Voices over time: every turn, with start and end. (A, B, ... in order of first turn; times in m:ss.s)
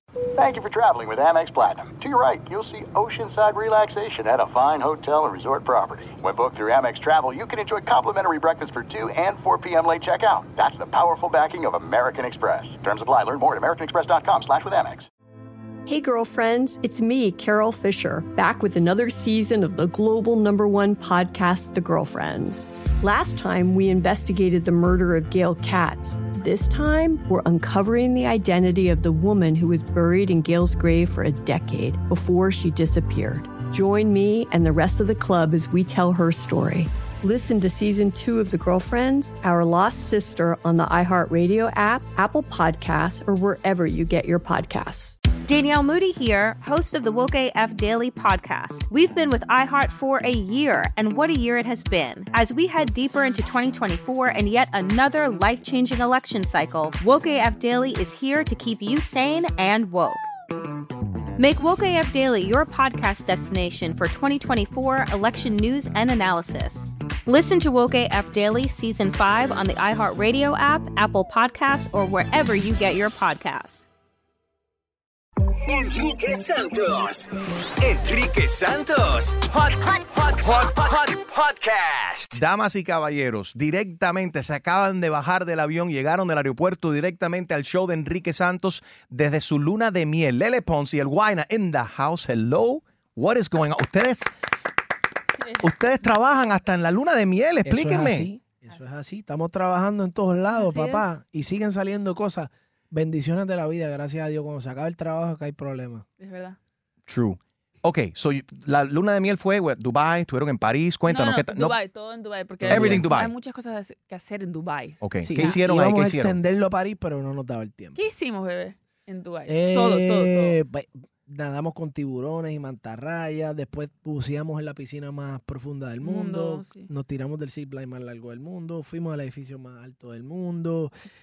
0:00.4-0:15.1 A
0:15.9-0:45.2 B
0:45.4-1:00.2 C
1:01.4-1:13.9 C
1:15.5-1:22.4 D
1:22.3-1:34.3 E
1:35.6-1:38.3 E
1:37.6-1:46.0 F
1:40.5-1:41.1 G
1:46.2-1:46.6 G
1:47.1-1:51.8 E
1:51.1-1:55.6 G
1:52.6-1:53.1 F
1:52.7-1:53.3 E
1:55.0-1:56.4 E
1:55.2-1:58.0 F
1:58.0-2:00.6 G
1:59.5-2:10.9 F
2:06.0-2:06.9 G